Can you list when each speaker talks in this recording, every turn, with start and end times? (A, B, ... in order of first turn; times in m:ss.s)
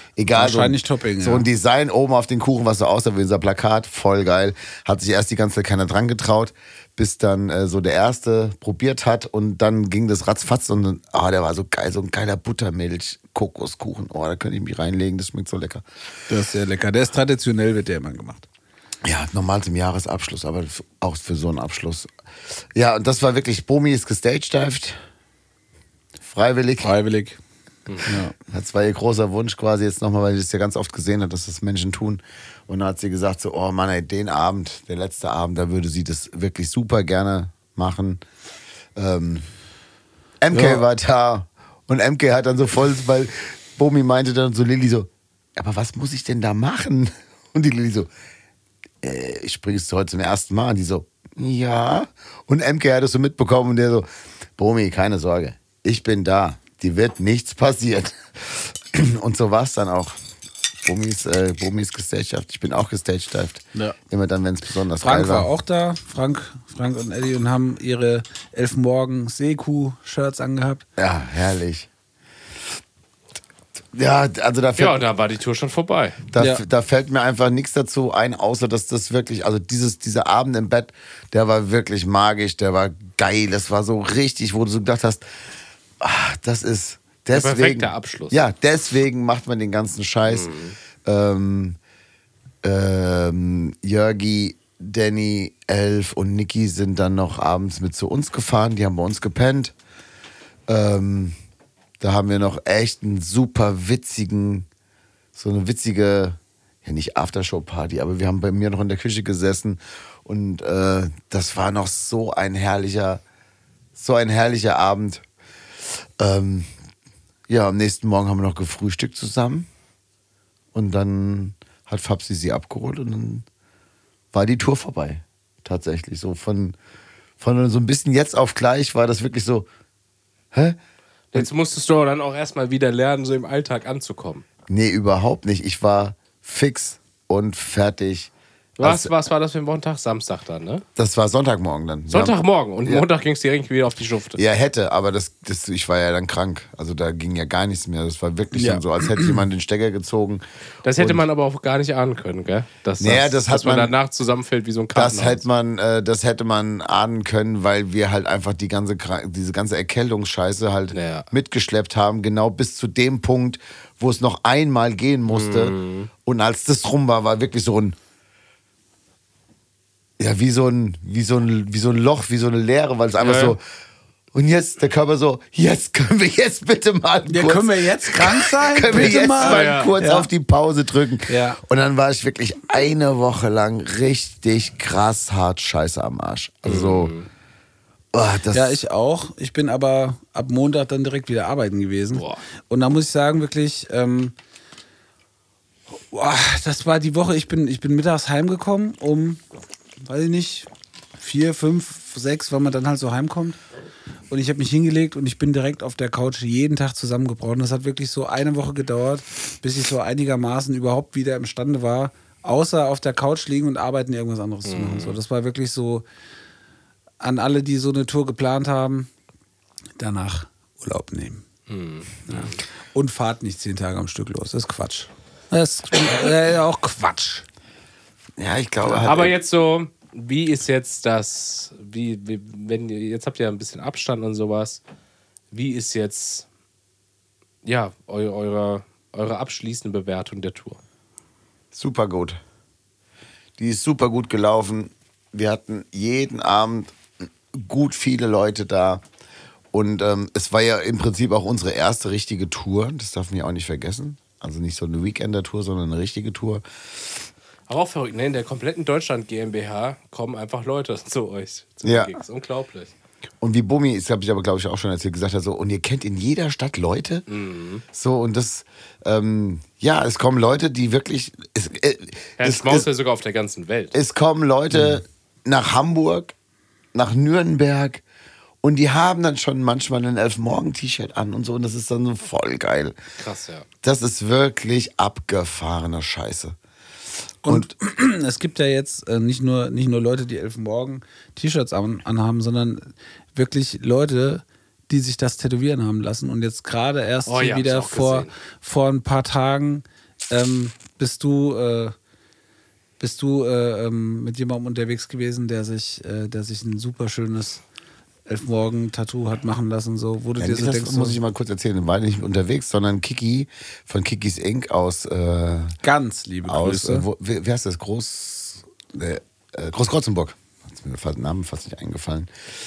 0:00.2-0:15.8 A
0:00.3-0:01.5 B
0:16.3-0:18.5 B
0:19.0-0:22.1 A
0:22.8-0:25.0 A
0:26.2-0:26.9 A
0:26.8-0:27.4 B
0:28.0-0:28.3 B
0:28.4-0:38.2 A
0:39.0-0:39.5 A
0:40.4-0:48.1 A
0:40.5-0:40.8 B
0:49.0-1:00.2 A
1:00.8-1:05.5 A
1:05.0-1:10.8 B
1:11.0-1:11.9 A
1:13.9-1:15.0 A
1:14.8-1:16.2 C
1:16.3-1:25.2 A
1:16.4-1:16.6 B
1:26.0-1:30.5 A
1:27.3-1:28.4 C
1:30.3-1:30.8 C
1:31.0-1:31.8 A
1:32.6-1:39.7 A
1:40.7-1:41.4 A
1:42.0-1:44.7 A
1:45.4-1:53.2 A
1:54.0-1:55.2 A
1:56.2-1:56.7 A
1:57.5-1:59.7 A
2:00.7-2:03.5 A
2:04.3-2:06.8 A
2:07.4-2:09.7 A
2:10.5-2:10.8 A
2:11.3-2:14.4 C
2:14.7-2:19.1 A
2:18.8-2:20.8 C
2:21.0-2:23.1 A
2:22.1-2:24.4 C
2:24.4-2:30.4 A
2:28.5-2:29.4 B
2:30.8-2:35.4 C
2:31.0-2:31.2 A
2:33.0-2:33.9 A
2:34.9-2:48.0 A
2:40.9-2:41.3 C
2:45.3-2:46.1 C
2:50.2-2:53.6 A
2:53.2-2:53.6 C
2:54.3-3:07.1 A
2:57.3-3:00.3 B
2:59.0-2:59.9 C
3:01.3-3:01.6 B
3:06.6-3:07.3 C
3:08.1-3:08.8 A
3:08.5-3:14.4 B
3:12.2-3:12.4 C
3:16.1-3:19.4 B
3:20.0-3:23.6 B
3:24.3-3:36.0 B
3:34.6-3:35.2 C
3:37.2-3:39.1 B
3:40.0-3:41.4 B
3:41.7-3:42.6 C
3:42.3-3:47.4 B
3:48.4-3:49.4 A
3:49.0-3:54.8 C
3:55.5-3:56.5 C
3:57.6-4:00.8 C
4:01.7-4:02.4 A
4:03.6-4:07.0 A
4:07.5-4:09.0 A
4:09.7-4:16.6 A
4:17.7-4:22.9 C
4:21.8-4:22.1 A
4:23.4-4:27.3 A
4:27.3-4:27.8 C
4:27.9-4:32.9 A
4:32.4-4:34.0 C
4:33.9-4:36.3 A
4:36.9-4:38.0 A
4:38.6-4:43.0 A
4:43.2-4:43.7 C
4:43.8-4:46.6 A
4:47.4-5:02.0 B
4:57.3-4:58.3 C
5:03.0-5:07.6 B
5:08.3-5:11.2 B
5:10.4-5:15.8 A
5:15.8-5:17.1 B
5:16.5-5:22.3 A